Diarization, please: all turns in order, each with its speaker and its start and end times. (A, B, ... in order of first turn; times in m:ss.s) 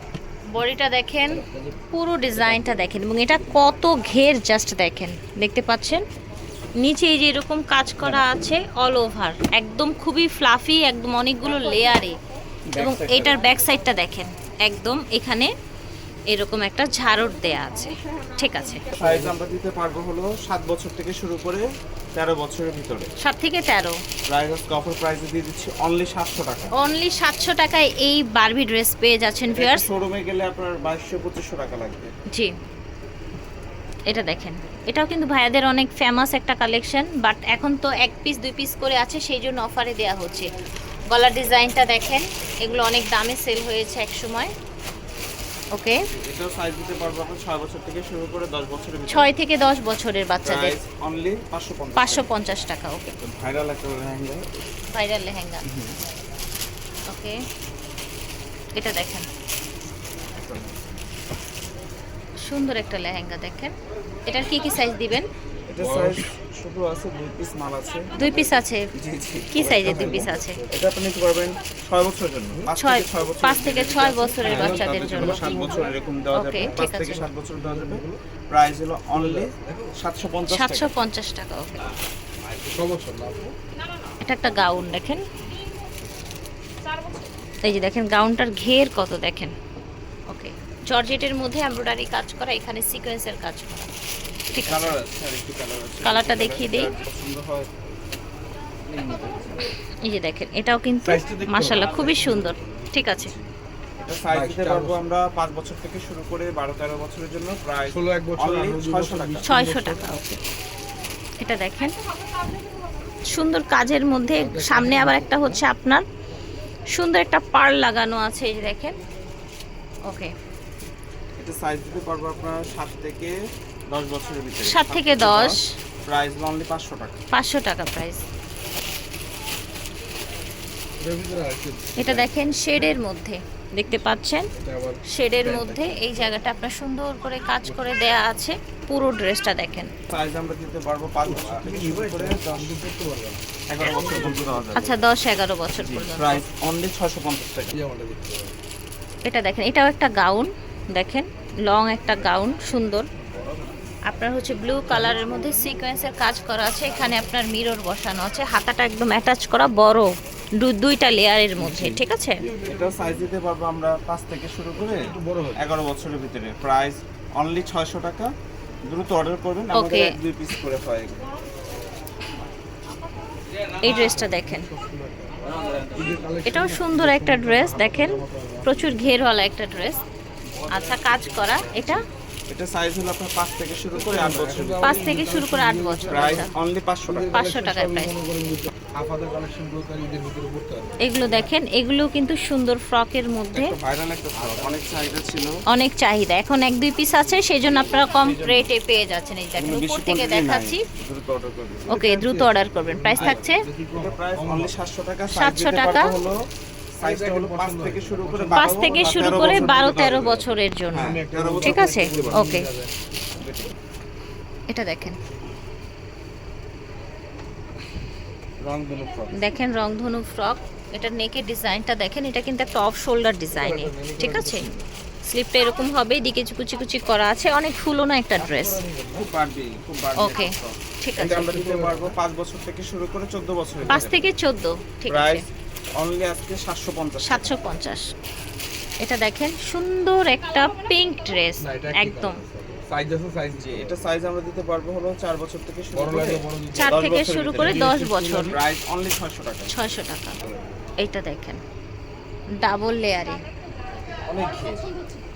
0:00.5-0:06.0 A
0:01.3-0:01.8 B
0:02.3-0:03.6 B
0:06.8-0:12.2 A
0:12.7-0:13.4 C
0:12.8-0:15.5 A
0:16.3-0:18.8 A
0:18.9-0:19.4 B
0:18.9-0:23.1 C
0:23.2-0:24.0 A
0:24.3-0:26.7 C
0:26.8-0:29.8 A
0:29.5-0:32.1 C
0:34.1-0:40.5 A
0:41.1-0:44.5 A
0:45.7-0:46.0 A
0:46.1-0:49.3 C
0:49.1-0:50.8 A
0:50.4-0:52.3 C
0:52.0-0:53.1 A
0:53.2-0:54.6 C
0:54.9-0:55.6 A
0:55.6-0:56.0 C
0:57.1-0:57.4 A
0:58.7-0:59.3 A
1:00.4-1:00.7 C
1:02.4-1:03.7 A
1:04.2-1:05.3 A
1:05.7-1:20.9 C
1:05.8-1:06.2 B
1:08.2-1:08.8 A
1:09.5-1:10.6 A
1:09.7-1:10.8 B
1:12.7-1:15.5 A
1:14.4-1:16.0 B
1:16.3-1:17.2 A
1:16.5-1:18.2 B
1:19.1-1:19.9 B
1:20.5-1:21.9 A
1:22.7-1:23.5 B
1:24.2-1:25.2 A
1:27.6-1:29.5 A
1:30.3-1:33.9 A
1:34.5-1:35.0 A
1:34.6-1:37.7 C
1:36.0-1:36.9 A
1:38.9-1:39.7 C
1:40.0-1:43.3 A
1:41.0-1:43.1 B
1:44.0-1:49.5 C
1:44.3-1:45.0 B
1:47.9-1:50.2 B
1:49.4-1:50.4 A
1:51.4-1:51.9 A
1:53.3-1:56.0 A
1:54.3-1:55.6 B
1:56.9-1:59.0 A
2:00.0-2:00.3 A
2:01.4-2:03.3 C
2:03.9-2:07.2 C
2:04.6-2:05.7 A
2:07.3-2:08.2 A
2:11.0-2:12.3 B
2:12.0-2:14.5 A
2:14.5-2:16.3 B
2:15.1-2:19.9 A
2:20.1-2:22.8 C
2:21.2-2:24.7 B
2:23.7-2:25.0 C
2:24.7-2:26.4 A
2:25.8-2:27.8 C
2:27.7-2:28.5 B
2:29.2-2:33.1 A
2:34.1-2:42.4 A
2:41.6-2:42.0 C
2:42.4-2:43.2 B
2:42.6-2:45.0 C
2:44.8-2:45.6 B
2:45.5-2:48.3 C
2:48.9-2:51.2 C
2:49.7-2:50.1 A
2:53.8-2:54.7 A
2:53.8-2:55.4 B
2:55.9-2:59.2 B
2:56.4-3:00.0 A
3:00.6-3:02.0 B
3:00.7-3:02.0 A
3:02.5-3:05.0 C
3:03.9-3:06.5 B
3:04.8-3:06.5 A
3:06.1-3:07.3 C
3:07.1-3:11.5 B
3:07.3-3:08.1 A
3:11.0-3:13.7 A
3:13.5-3:15.6 C
3:14.3-3:14.8 B
3:15.7-3:20.8 A
3:17.6-3:18.7 C
3:19.6-3:21.9 C
3:21.9-3:24.7 B
3:21.9-3:23.6 A
3:23.2-3:26.4 C
3:25.3-3:26.1 A
3:27.0-3:32.5 C
3:27.0-3:29.8 B
3:28.5-3:31.1 A
3:30.9-3:32.9 B
3:31.6-3:32.7 A
3:33.4-3:33.7 C
3:34.7-3:35.2 A
3:38.6-3:39.4 C
3:39.4-3:44.7 A
3:43.5-3:44.8 B
3:45.3-3:48.8 A
3:48.3-3:49.3 B
3:49.1-3:54.3 C
3:50.2-3:51.4 A
3:51.2-3:52.2 B
3:53.8-3:54.2 B
3:53.9-3:55.4 A
3:55.1-3:55.4 C
3:56.0-3:57.6 C
3:57.2-3:58.0 A
3:59.0-4:02.4 A
4:01.6-4:04.1 B
4:03.5-4:07.9 C
4:05.9-4:07.0 B
4:06.7-4:08.6 A
4:07.6-4:08.6 B
4:08.5-4:09.7 C
4:09.7-4:10.4 A
4:11.0-4:11.6 A
4:12.6-4:13.4 A
4:14.3-4:14.9 C